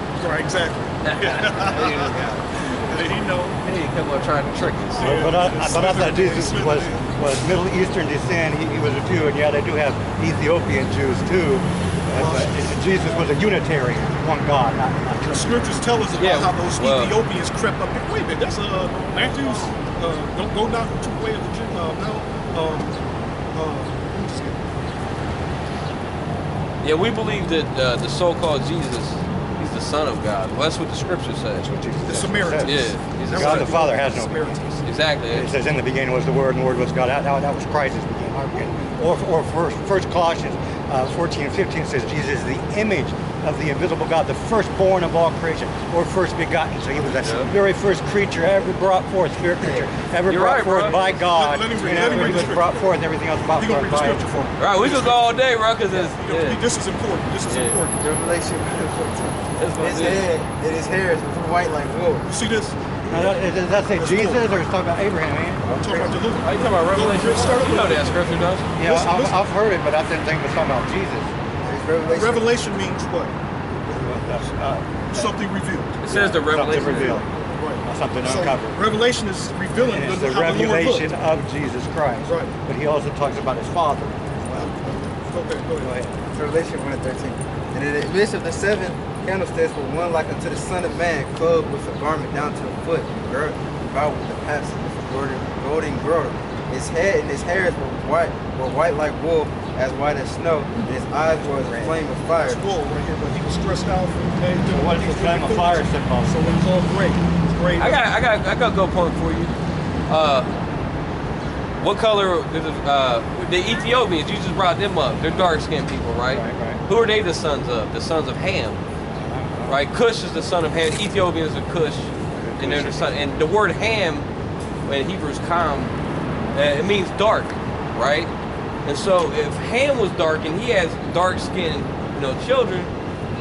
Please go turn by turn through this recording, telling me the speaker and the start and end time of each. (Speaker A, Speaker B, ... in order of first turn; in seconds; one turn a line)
Speaker A: 0.2-3.6
Speaker B: 1.0-5.3
Speaker A: 5.0-7.2
Speaker C: 5.0-15.8
Speaker A: 12.2-12.6
Speaker A: 15.2-23.0
Speaker B: 16.2-17.2
Speaker A: 23.6-24.6
Speaker B: 26.8-31.7
Speaker C: 31.6-54.3
Speaker A: 32.0-34.9
Speaker B: 32.6-33.9
Speaker B: 34.9-35.5
Speaker A: 38.5-39.1
Speaker B: 47.1-47.5
Speaker D: 49.6-49.9
Speaker B: 50.3-51.0
Speaker A: 51.1-52.9
Speaker D: 51.8-52.5
Speaker A: 53.6-58.0
Speaker B: 54.6-56.6
Speaker B: 57.5-57.8
Speaker D: 58.0-62.3
Speaker B: 59.6-60.3
Speaker A: 61.6-62.8
Speaker D: 63.1-63.4
Speaker C: 63.1-66.2
Speaker A: 63.9-64.4
Speaker A: 65.8-69.5
Speaker B: 66.4-68.7
Speaker C: 68.8-71.3
Speaker D: 71.6-72.5
Speaker A: 72.1-73.3
Speaker C: 73.9-75.3
Speaker A: 75.1-76.0
Speaker B: 76.0-77.2
Speaker C: 76.1-77.3
Speaker A: 76.7-81.1
Speaker C: 77.8-78.8
Speaker C: 79.8-84.7
Speaker A: 82.3-82.5
Speaker A: 84.5-86.0
Speaker C: 85.8-86.2
Speaker D: 86.3-102.6
Speaker A: 102.4-108.1
Speaker C: 104.7-106.6
Speaker B: 107.8-109.5
Speaker B: 110.1-110.5
Speaker B: 111.8-118.8
Speaker C: 116.3-116.8
Speaker C: 119.1-119.8
Speaker B: 119.7-124.3
Speaker C: 122.3-123.1
Speaker B: 124.9-125.9
Speaker B: 126.5-128.3
Speaker B: 128.8-132.9